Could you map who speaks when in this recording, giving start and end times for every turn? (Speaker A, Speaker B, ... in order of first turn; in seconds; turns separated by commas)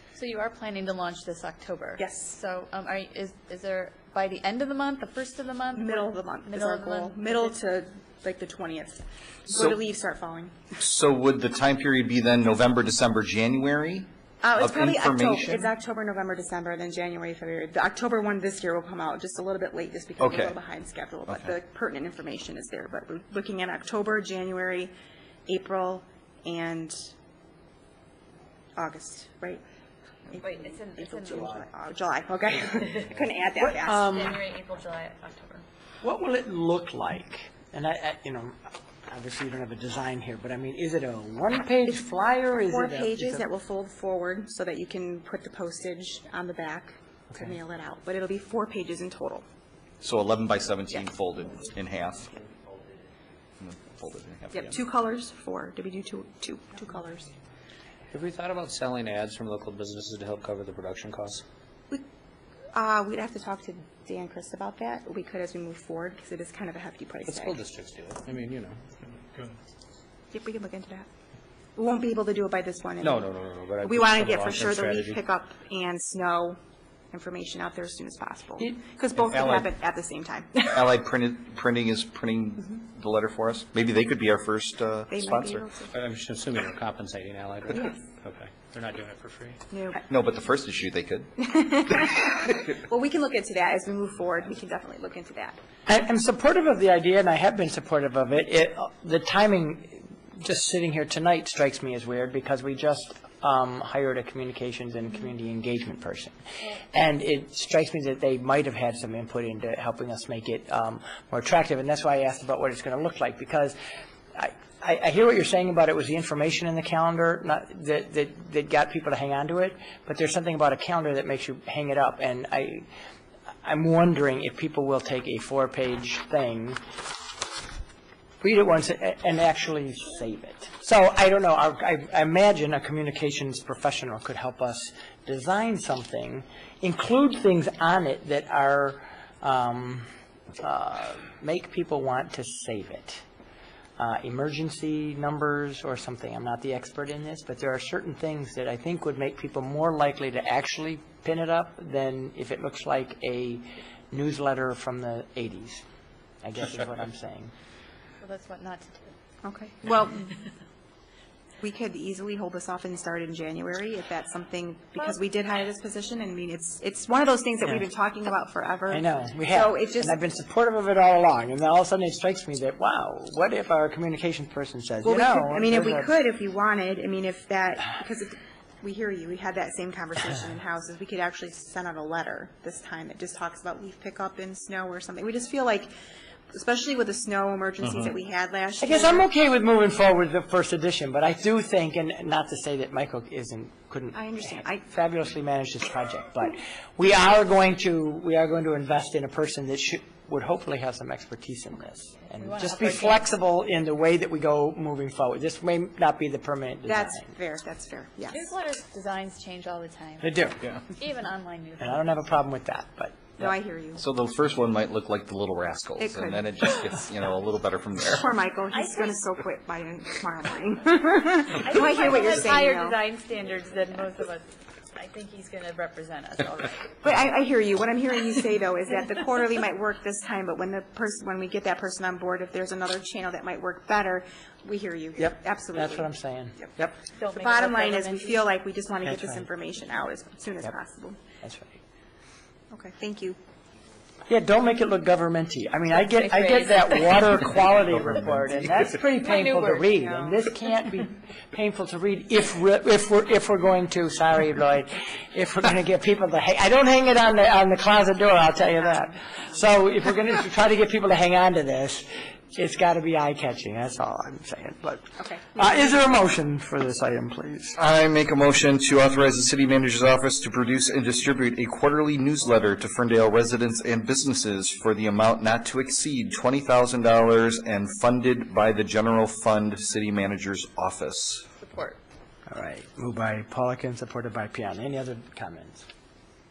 Speaker A: 0.1-7.5, Speaker B: 2.0-2.3, Speaker B: 5.7-10.5, Speaker C: 9.5-9.8, Speaker C: 10.8-15.7, Speaker B: 14.4-24.9, Speaker C: 20.2-20.5, Speaker C: 21.3-21.5, Speaker B: 25.5-27.1, Speaker B: 28.8-29.6, Speaker B: 30.3-34.2, Speaker A: 30.4-31.6, Speaker D: 33.6-34.4, Speaker A: 34.0-35.6, Speaker D: 36.0-38.6, Speaker D: 39.1-43.4, Speaker B: 42.6-49.4, Speaker C: 50.0-52.3, Speaker C: 53.6-54.6, Speaker B: 54.5-57.3, Speaker E: 58.1-61.4, Speaker B: 62.7-67.5, Speaker E: 67.2-68.8, Speaker B: 70.3-71.1, Speaker B: 71.8-73.2, Speaker E: 73.0-75.2, Speaker B: 73.8-76.6, Speaker B: 77.1-80.7, Speaker C: 79.2-79.7, Speaker C: 80.6-85.6, Speaker B: 85.1-85.9, Speaker E: 85.9-89.6, Speaker B: 89.7-90.0, Speaker C: 90.1-91.3, Speaker B: 91.4-95.5, Speaker D: 95.8-113.8, Speaker D: 114.3-122.9, Speaker D: 123.6-126.8, Speaker D: 128.4-140.1, Speaker D: 140.6-143.2, Speaker D: 144.0-155.8, Speaker D: 156.4-157.5, Speaker A: 158.2-159.1, Speaker B: 159.4-160.3, Speaker B: 161.6-170.2, Speaker D: 168.9-176.1, Speaker B: 175.0-185.9, Speaker B: 186.5-189.3, Speaker D: 188.8-207.3, Speaker B: 194.1-194.8, Speaker A: 202.3-203.2, Speaker B: 206.8-208.4, Speaker A: 208.3-210.3, Speaker D: 210.2-210.6, Speaker A: 210.9-212.2, Speaker D: 211.8-213.5, Speaker B: 213.4-214.0, Speaker C: 214.0-218.3, Speaker B: 216.0-216.6, Speaker B: 218.1-223.0, Speaker A: 218.7-219.2, Speaker A: 221.5-226.9, Speaker B: 227.0-236.7, Speaker D: 235.2-236.9, Speaker A: 237.2-238.4, Speaker B: 237.3-241.2, Speaker D: 239.0-239.5, Speaker D: 241.4-241.8, Speaker B: 242.7-243.4, Speaker D: 244.3-267.8, Speaker A: 245.9-247.2, Speaker A: 249.2-250.3, Speaker B: 265.2-265.8, Speaker C: 267.8-281.4, Speaker A: 281.6-282.0, Speaker D: 282.5-285.9